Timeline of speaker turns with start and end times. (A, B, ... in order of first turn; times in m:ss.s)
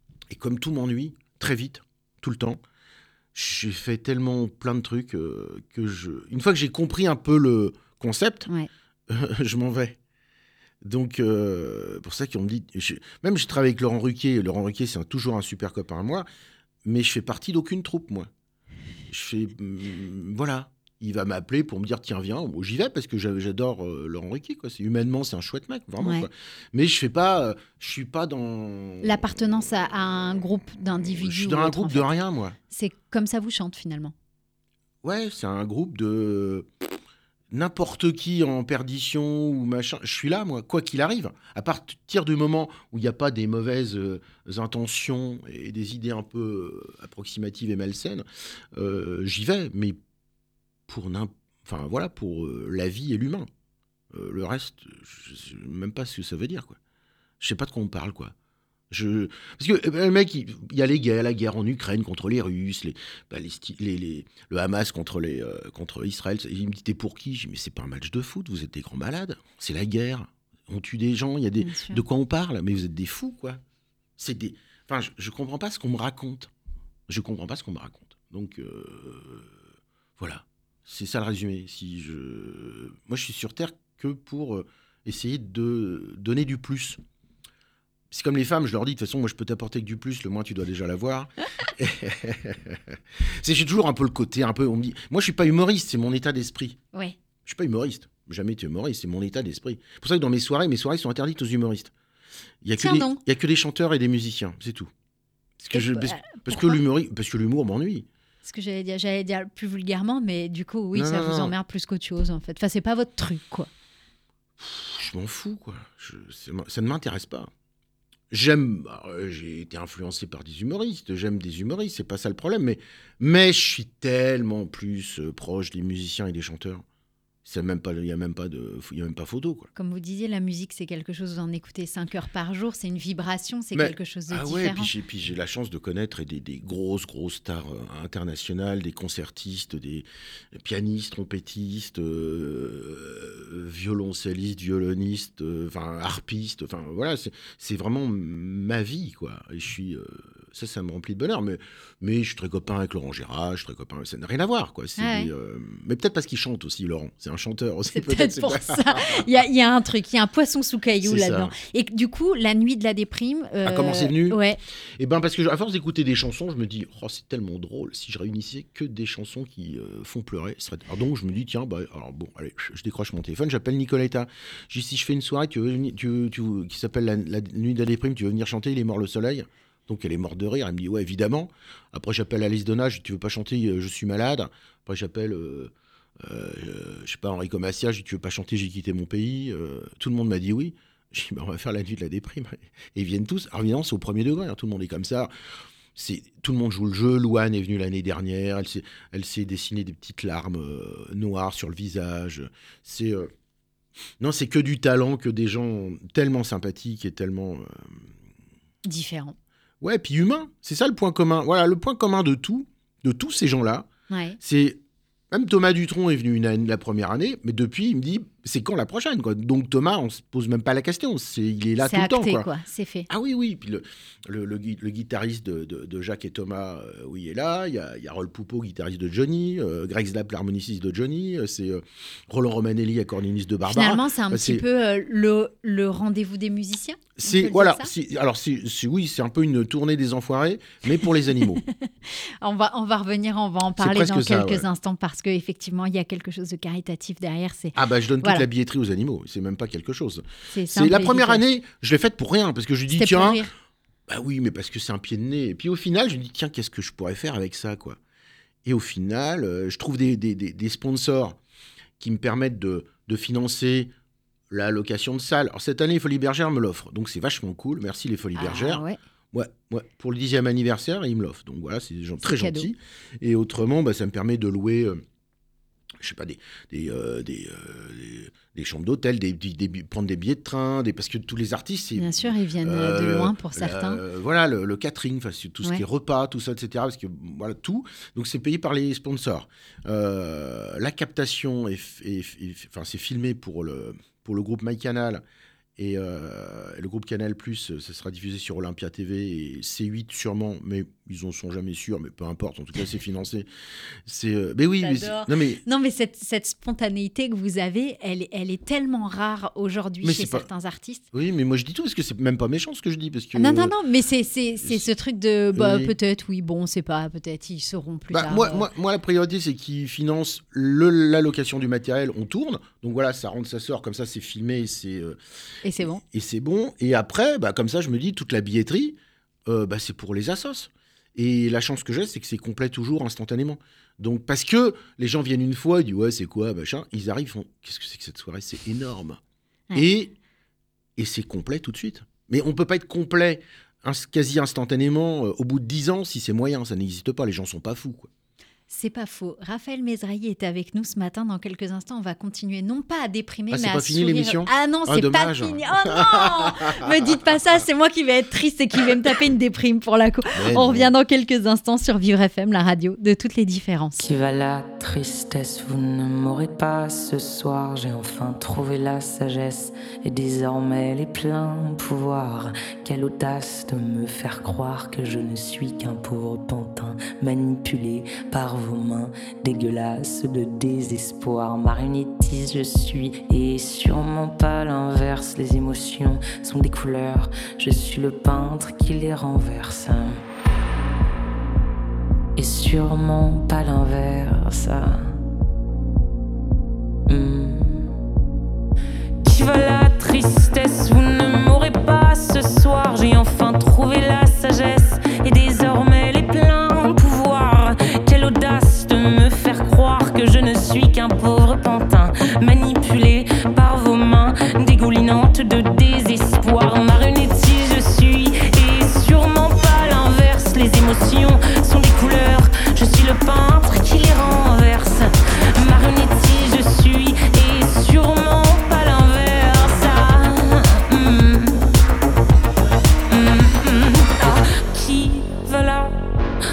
0:00.3-0:02.6 A
0:03.3-0:08.5 A
0:09.1-0:10.0 A
0:10.8-0:16.3 A
0:16.8-0:18.3 A
0:19.1-0:29.3 A
0:26.0-0:26.3 B
0:29.0-0:32.1 B
0:31.0-0:32.6 A
0:32.7-0:34.1 B
0:35.0-0:36.7 A
0:37.5-0:50.0 A
0:50.9-0:53.5 A
0:54.1-0:56.8 A
0:57.4-0:58.3 A
0:58.9-1:13.6 A
1:11.6-1:12.0 B
1:14.2-1:16.5 A
1:17.1-1:19.5 A
1:20.2-1:27.0 A
1:28.1-1:36.8 A
1:37.4-1:41.9 A
1:42.6-1:44.9 A
1:42.8-1:43.2 B
1:45.6-1:48.1 A
1:45.7-1:46.8 B
1:48.4-1:53.7 B
1:50.9-1:51.5 A
1:54.6-1:57.5 A
1:58.3-2:06.8 A
2:07.4-2:09.7 A
2:09.8-2:14.9 B
2:13.7-2:39.3 A
2:35.0-2:35.3 B
2:37.9-2:44.6 B
2:41.0-2:41.5 A
2:43.6-2:44.4 A
2:45.0-3:15.3 A
3:15.9-3:23.3 A
3:24.2-3:28.1 A
3:28.8-3:29.4 B
3:29.8-3:33.9 A
3:34.1-3:34.4 B
3:34.4-3:34.8 A
3:35.3-3:42.4 A
3:41.8-3:43.1 B
3:43.1-3:54.6 A
3:53.7-3:57.9 B
3:57.2-4:01.6 A
4:01.6-4:08.4 B
4:03.8-4:04.6 A
4:07.8-4:13.5 A
4:10.5-4:11.4 B
4:12.9-4:13.5 B
4:14.1-4:18.0 A
4:18.6-4:21.4 A
4:22.0-4:23.9 A
4:24.5-4:35.0 A
4:28.4-4:29.0 B
4:32.2-4:32.7 B
4:36.0-4:55.2 A
4:42.0-4:44.0 B
4:55.8-5:03.5 A
5:04.0-5:05.6 A
5:04.8-5:11.0 B
5:10.0-5:10.4 A
5:11.1-5:13.8 A
5:13.3-5:18.7 B
5:15.5-5:15.9 A
5:18.1-5:25.2 A
5:25.6-5:26.0 B
5:25.8-5:39.2 A
5:39.8-5:40.2 A
5:41.0-5:48.1 A
5:48.7-6:04.1 B
5:53.5-5:57.2 A
6:00.3-6:00.9 A
6:04.0-6:30.2 C
6:32.4-6:35.1 C
6:37.1-6:37.9 C
6:39.2-7:11.7 C
7:13.1-7:16.0 C